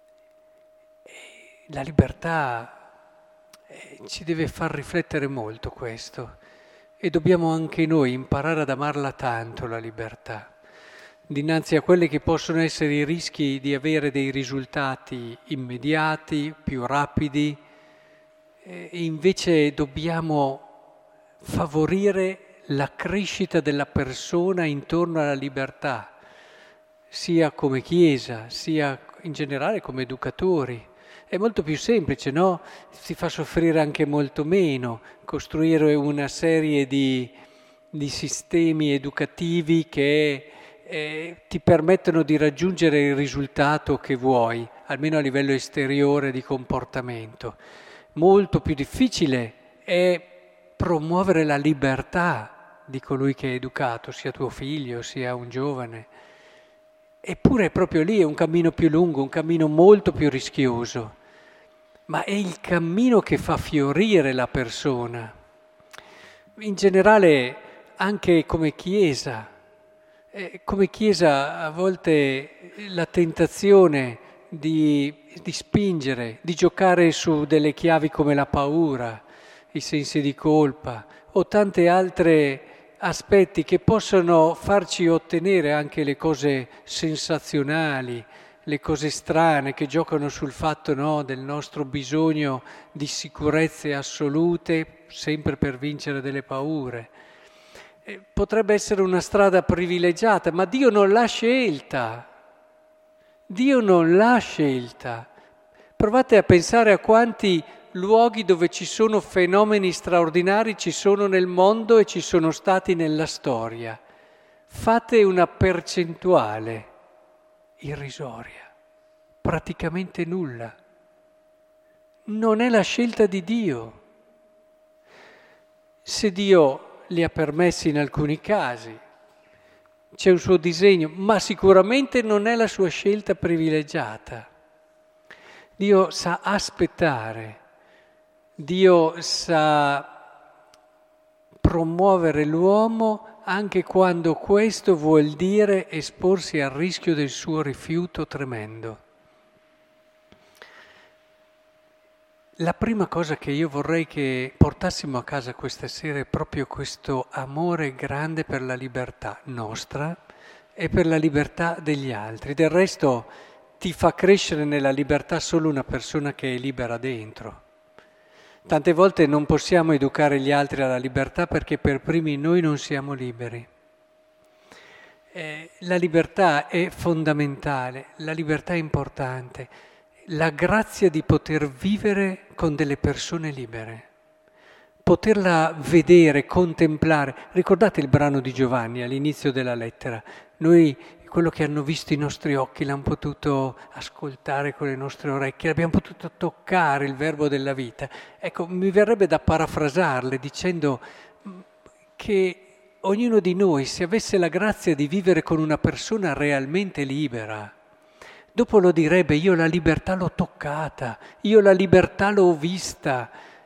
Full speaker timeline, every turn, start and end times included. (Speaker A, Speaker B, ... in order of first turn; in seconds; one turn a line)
Speaker A: 1.7-2.8
Speaker A: 3.7-6.3
Speaker A: 7.0-10.5
Speaker A: 11.3-17.6
Speaker A: 18.6-20.7
Speaker A: 21.4-26.2
Speaker A: 27.1-37.3
Speaker A: 37.9-47.6
Speaker A: 48.1-56.1
Speaker A: 57.2-61.1
Speaker A: 62.1-65.3
Speaker A: 66.6-69.5
Speaker A: 70.3-97.1
Speaker A: 98.0-102.3
Speaker A: 103.5-105.3
Speaker A: 106.0-114.0
Speaker A: 114.7-116.9
Speaker A: 117.8-118.7
Speaker A: 119.4-120.8
Speaker A: 122.3-124.0
Speaker A: 126.0-129.0
Speaker A: 130.1-134.5
Speaker A: 135.8-137.6
Speaker A: 138.6-140.1
Speaker A: 141.6-149.0
Speaker A: 152.6-160.2
Speaker A: 160.8-167.6
Speaker A: 168.7-173.7
Speaker A: 175.3-179.7
Speaker A: 180.3-184.1
Speaker A: 185.0-201.7
Speaker A: 202.2-207.7
Speaker A: 208.5-213.3